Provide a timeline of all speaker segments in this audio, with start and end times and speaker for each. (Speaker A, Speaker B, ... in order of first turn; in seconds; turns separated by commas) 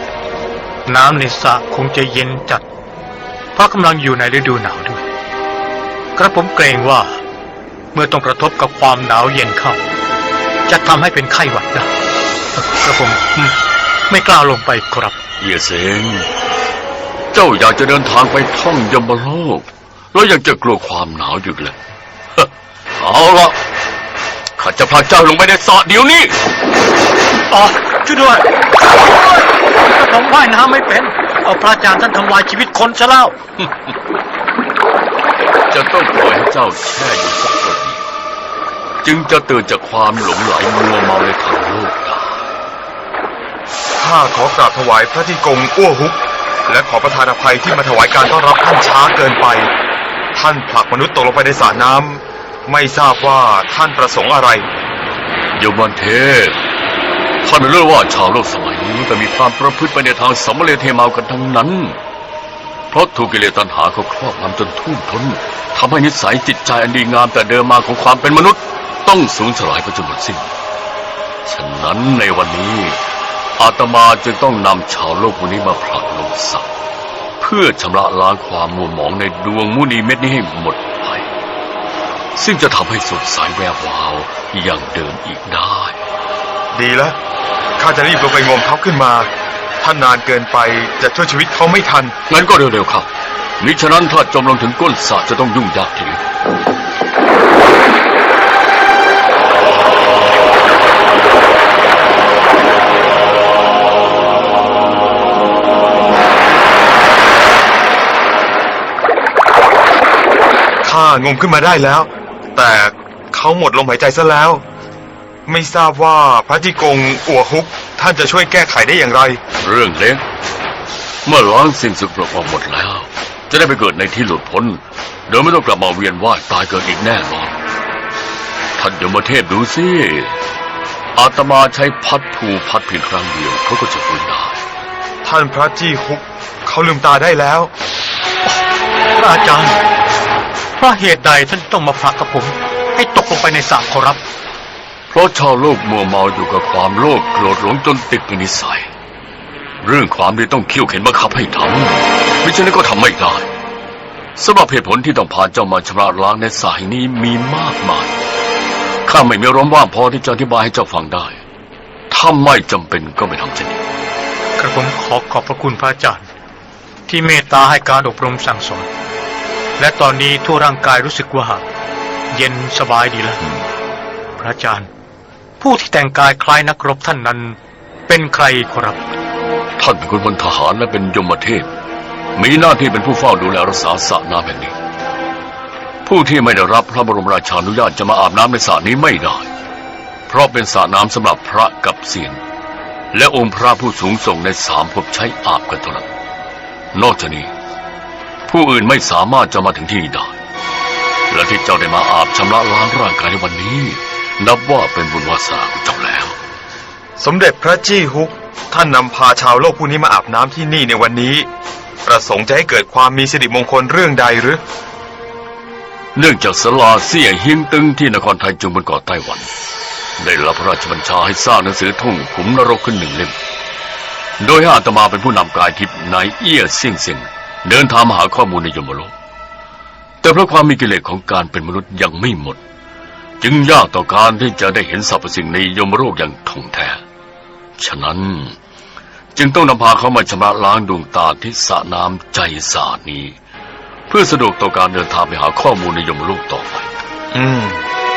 Speaker A: 0.8-2.6, Speaker A: 3.5-5.0, Speaker A: 6.2-7.2, Speaker A: 7.9-9.8, Speaker A: 10.7-11.9, Speaker A: 12.8-13.6, Speaker A: 14.1-15.2, Speaker B: 15.4-16.3, Speaker B: 17.3-21.8, Speaker B: 22.4-23.6, Speaker B: 24.6-26.4, Speaker A: 27.5-33.4, Speaker B: 35.7-38.0, Speaker B: 39.0-42.4, Speaker C: 44.0-49.7, Speaker C: 50.3-54.7, Speaker B: 55.5-56.6, Speaker B: 57.4-62.0, Speaker B: 62.9-70.5, Speaker B: 71.5-73.0, Speaker B: 73.6-76.7, Speaker B: 77.4-81.3, Speaker B: 82.3-86.0, Speaker C: 86.7-87.2, Speaker C: 87.8-89.3, Speaker C: 89.8-92.1, Speaker B: 92.3-96.2, Speaker C: 110.8-114.6, Speaker C: 115.5-119.4, Speaker B: 119.6-120.2, Speaker B: 121.2-127.5, Speaker B: 128.8-130.3, Speaker B: 131.2-134.6, Speaker C: 135.2-137.7, Speaker A: 139.2-139.8, Speaker A: 140.8-144.2, Speaker B: 145.1-148.9, Speaker B: 149.8-153.5, Speaker B: 154.3-158.1, Speaker B: 159.0-161.4, Speaker B: 162.1-163.8, Speaker A: 164.6-166.3, Speaker A: 167.1-168.9, Speaker A: 169.8-171.7, Speaker A: 172.3-173.4, Speaker A: 174.4-174.9, Speaker A: 175.6-177.6, Speaker A: 178.1-179.0, Speaker B: 179.8-181.7, Speaker B: 182.3-184.7, Speaker B: 186.0-189.5, Speaker B: 190.3-192.4, Speaker B: 193.1-196.1, Speaker B: 196.9-197.5, Speaker B: 198.5-200.3, Speaker B: 201.3-206.3, Speaker C: 207.2-211.5, Speaker C: 212.0-214.6, Speaker B: 216.1-219.5, Speaker B: 220.2-223.3, Speaker B: 224.4-229.1, Speaker B: 230.2-232.6, Speaker B: 233.4-237.0, Speaker B: 237.8-238.6, Speaker B: 239.3-243.3, Speaker B: 244.1-246.9, Speaker C: 247.3-247.8